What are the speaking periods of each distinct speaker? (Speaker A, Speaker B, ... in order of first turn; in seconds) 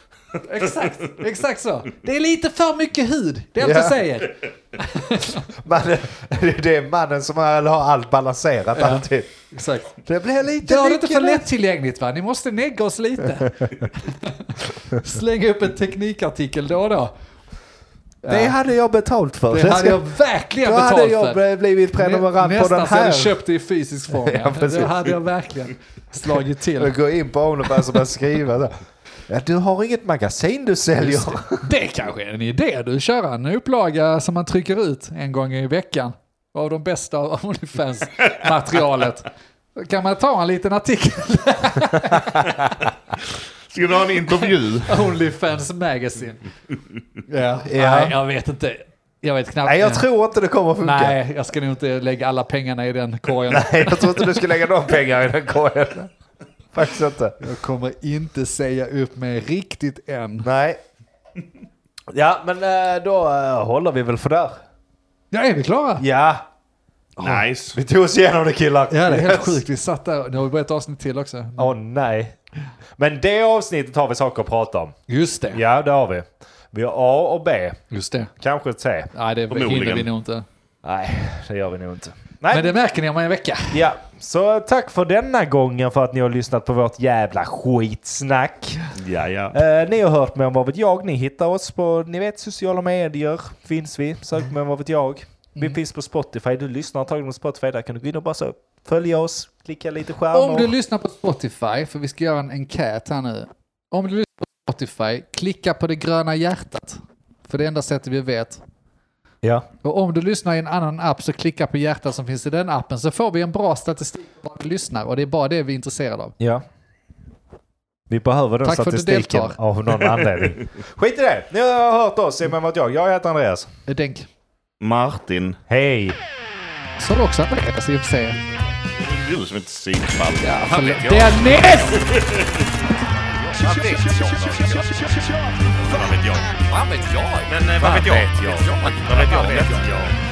Speaker A: 0.4-5.5, 8.7-9.9, 10.6-17.1, 18.2-18.6, 19.5-21.4, 21.9-26.9, 31.0-42.7, 44.2-46.5, 47.3-50.0, 50.8-54.6, 57.4-60.5, 65.3-66.0, 68.9-71.7, 75.1-75.6, 77.9-78.3, 79.1-80.5, 82.5-83.8, 100.3-108.6, 109.8-116.3, 118.6-119.6, 123.9-124.3, 127.0-128.4, 130.4-132.0
Speaker B: 3.6-4.1, 5.5-9.3, 10.0-11.4, 18.3-20.0, 20.6-23.4, 24.1-25.1, 26.8-28.7, 29.3-31.7, 47.6-48.1, 49.6-51.2, 53.5-56.1, 56.7-57.4, 60.4-60.8, 62.1-64.6, 66.0-66.5, 67.2-69.6, 71.6-72.3, 73.0-74.9, 75.5-77.8, 78.4-79.1, 80.8-82.7, 83.7-88.8, 89.5-100.7, 116.4-116.6, 118.1-123.7, 125.7-126.2, 137.9-138.7
Speaker C: 43.7-45.0, 67.2-67.8, 79.5-80.1, 88.9-89.6, 124.8-125.6, 129.0-130.6, 132.0-132.7, 135.8-136.4, 137.5-140.1
Speaker D: 130.6-132.0, 133.4-140.1